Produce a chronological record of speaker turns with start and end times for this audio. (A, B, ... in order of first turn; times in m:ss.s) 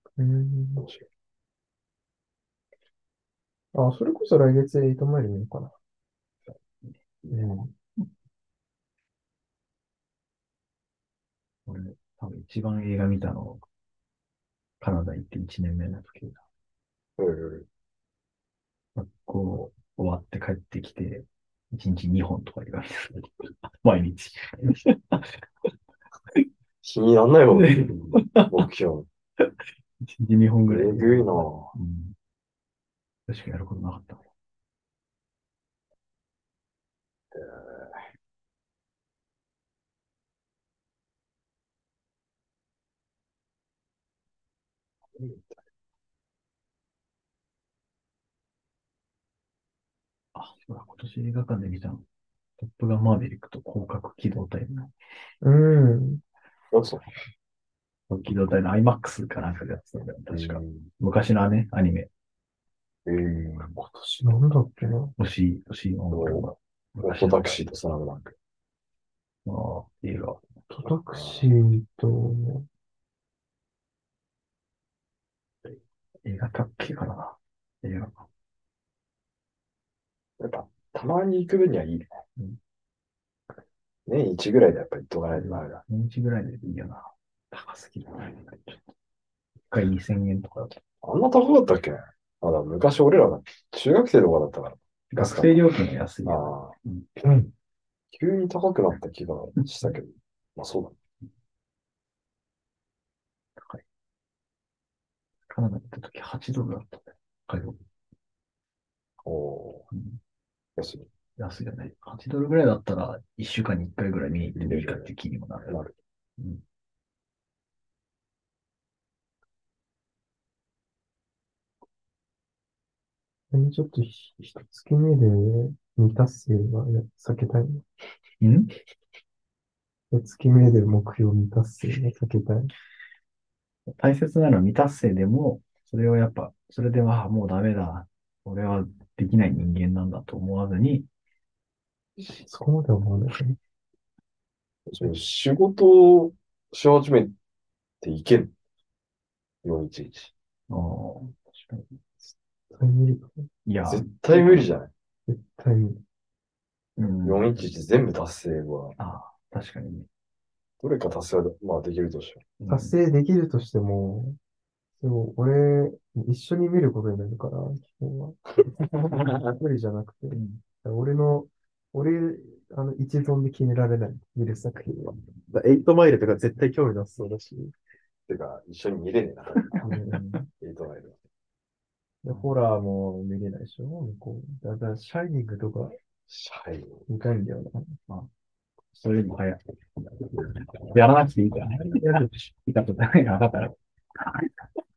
0:00.2-0:00.8 A
0:00.8-0:01.0 B
0:03.7-0:05.7 A
0:06.5-0:07.0 C
0:07.2-0:07.5 B
0:07.3-0:07.7 A
0:11.6-0:13.6 C
0:14.8-0:16.4 C
0:17.2-0:17.7 B
0:18.9-0:25.4 C
0:26.8-0:29.1 B
0:27.5-0:28.6 C
0:29.4-0:32.1 C
0:30.7-0:31.7 B
0:33.3-0:34.2 C
0:37.3-0:38.1 B
0:45.1-0:45.6 B
0:50.3-0:52.0 C
0:52.6-0:54.9 C
0:55.4-0:56.2 A
0:56.7-0:57.1 B
0:58.1-1:02.1 C
1:00.3-1:00.9 B
1:03.0-1:03.8 B
1:03.8-1:05.1 A
1:05.2-1:07.6 C
1:06.1-1:06.5 B
1:07.0-1:08.4 B
1:09.4-1:10.4 C
1:10.7-1:12.6 A
1:11.1-1:11.5 B
1:16.2-1:18.3 C
1:20.4-1:22.1 B
1:24.1-1:25.8 B
1:25.4-1:28.9 C
1:29.7-1:30.8 C
1:31.0-1:35.6 B
1:35.1-1:37.3 C
1:36.2-1:36.7 B
1:38.1-1:41.0 B
1:39.7-1:39.9 C
1:43.6-1:43.8 C
1:45.5-1:47.8 C
1:49.2-1:49.8 B
1:49.9-1:50.2 C
1:50.8-1:51.1 B
1:51.4-1:55.7 C
1:54.5-1:55.1 B
1:55.6-1:55.9 B
2:03.5-2:07.8 A
2:08.4-2:08.7 C
2:10.1-2:12.7 A
2:13.9-2:21.1 C
2:22.2-2:23.6 A
2:24.9-2:27.3 B
2:28.0-2:28.5 B
2:29.6-2:30.3 B
2:30.7-2:32.0 C
2:32.7-2:33.5 A
2:33.6-2:34.6 C
2:33.8-2:34.9 B
2:35.3-2:36.0 A
2:37.0-2:37.7 C
2:37.2-2:39.0 B
2:39.0-2:40.1 C
2:40.8-2:42.5 B
2:42.6-2:42.9 C
2:42.7-2:44.4 A
2:45.0-2:57.7 A
2:50.3-2:50.6 C
2:58.3-2:59.8 B
2:59.5-3:00.4 C
2:59.8-3:00.4 A
3:00.6-3:01.2 B
3:02.2-3:06.0 A
3:06.3-3:07.1 B
3:07.1-3:08.0 A
3:08.9-3:14.5 C
3:11.7-3:12.2 A